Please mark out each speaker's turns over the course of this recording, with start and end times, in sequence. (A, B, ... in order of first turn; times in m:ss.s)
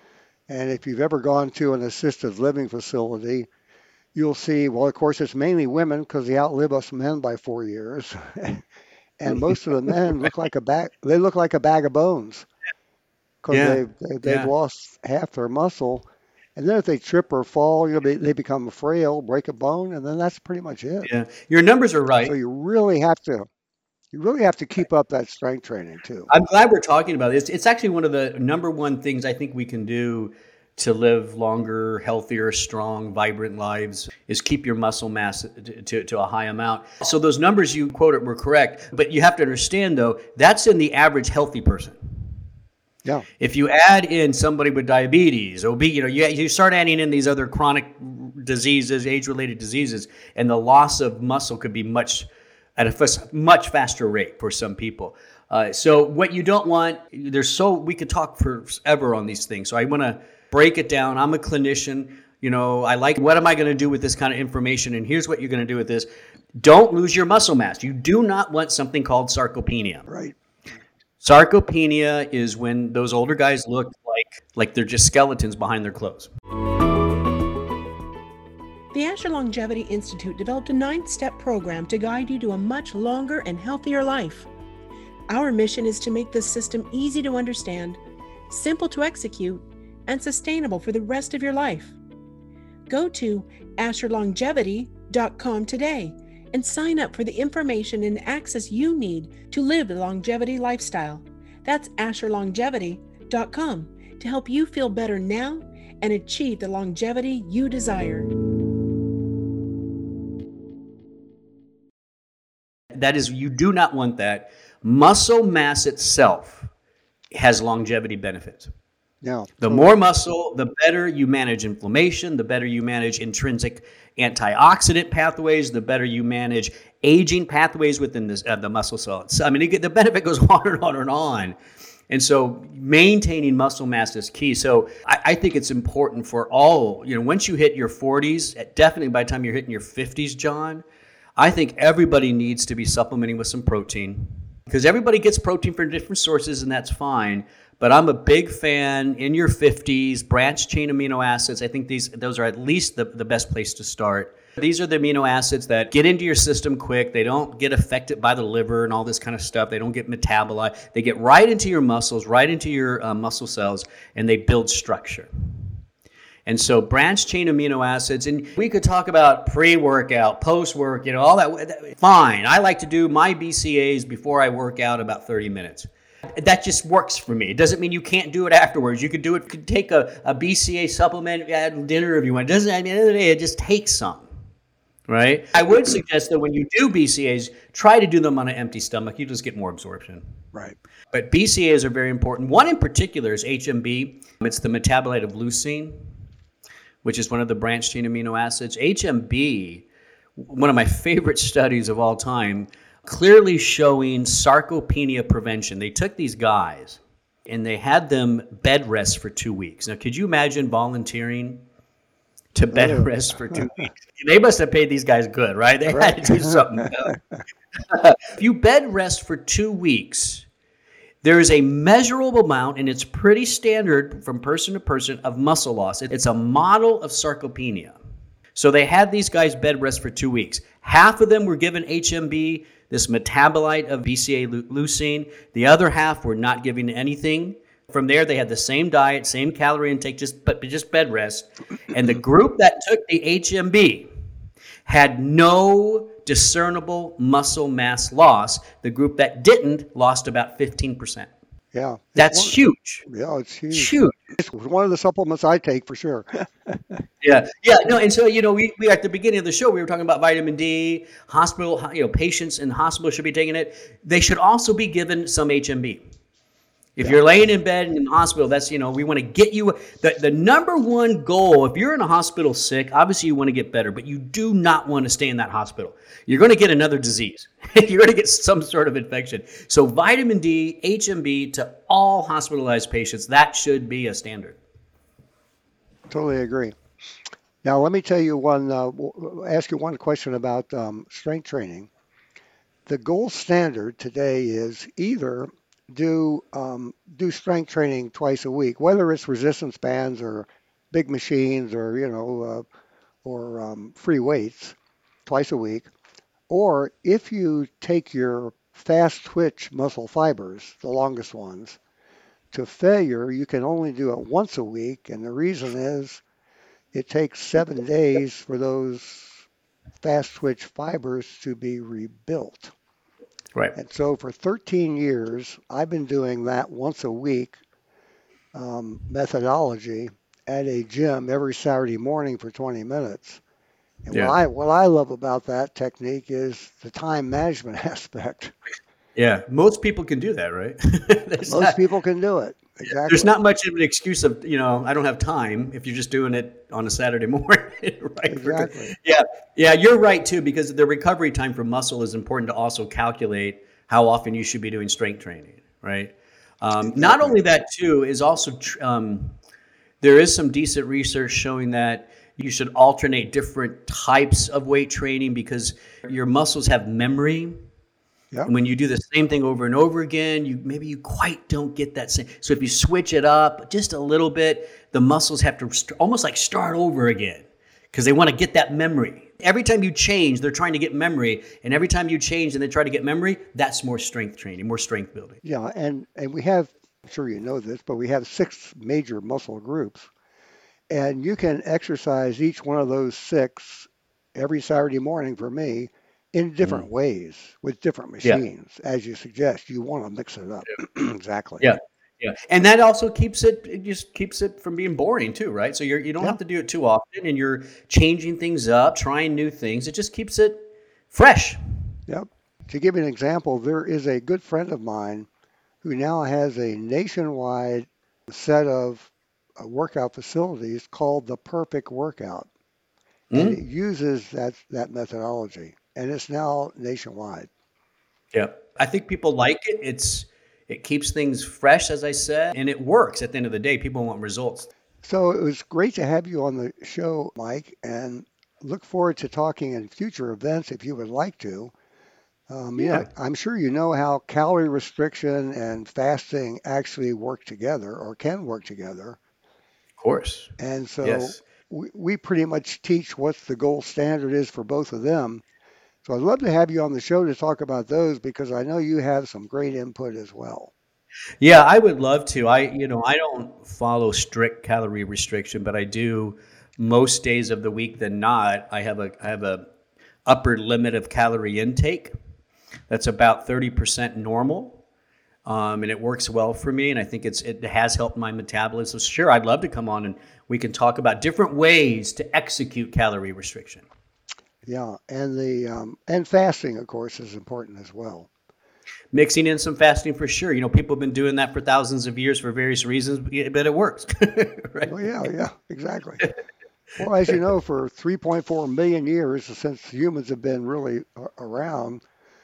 0:00.5-0:03.5 A
0:04.1-0:08.6 A
0:09.2-0:12.5 A
0:13.4-0:21.1 A
0:13.5-0:14.5 B
0:21.0-0:22.4 B
0:22.2-0:23.5 A
0:24.1-0:26.3 A
0:26.3-0:42.0 B
0:43.4-1:10.1 B
1:10.1-1:10.4 A
1:11.2-1:16.3 B
1:18.9-1:24.5 C
1:25.3-1:28.0 C
1:28.5-1:32.0 C
1:32.9-1:48.3 C
1:52.9-1:56.7 B
1:57.3-1:58.7 B
1:59.2-1:59.9 A
1:59.6-2:11.6 B
2:12.1-2:20.8 B
2:21.4-2:45.3 B
2:46.4-3:04.3 B
3:05.1-3:10.2 B
3:11.1-3:15.9 B
3:17.0-3:19.8 B
3:20.4-3:31.6 B
3:32.5-3:37.2 B
3:32.7-3:33.7 A
3:35.9-3:36.6 A
3:37.9-3:40.5 B
3:41.2-3:48.0 B
3:48.5-4:04.1 B
4:04.8-4:11.3 B
4:11.7-4:17.0 A
4:12.2-4:13.0 B
4:13.7-4:14.1 B
4:17.2-4:26.0 B
4:27.0-4:44.6 B
4:46.1-4:46.7 A
4:47.6-4:51.9 A
4:52.8-5:02.6 A
5:03.2-5:04.7 A
5:05.2-5:05.9 A
5:06.5-5:11.8 A
5:12.5-5:16.2 A
5:16.9-5:19.4 A
5:20.0-5:22.7 A
5:23.7-5:27.6 A
5:28.5-5:33.4 A
5:34.0-5:38.5 A
5:39.2-5:41.8 B
5:41.5-5:43.3 A
5:43.0-5:59.4 B
5:48.3-5:48.9 A
5:56.8-5:57.4 A
6:00.0-6:07.5 B
6:08.4-6:25.4 B
6:25.4-6:30.1 A
6:30.9-6:41.7 A
6:41.6-6:50.6 B
6:51.1-6:51.6 B
6:52.1-6:55.3 A
6:55.8-7:02.5 A
7:03.3-7:03.6 B
7:03.3-7:07.5 A
7:08.3-7:14.7 B
7:15.0-7:21.7 A
7:22.5-7:29.2 A
7:22.8-7:23.1 B
7:30.0-7:31.4 B
7:30.6-7:35.4 A
7:36.0-7:40.7 A
7:41.4-7:49.6 B
7:50.2-7:52.1 B
7:52.9-7:54.8 B
7:55.4-8:03.8 B
8:04.6-8:08.3 A
8:09.1-8:15.2 B
8:14.8-8:16.2 A
8:17.0-8:22.0 A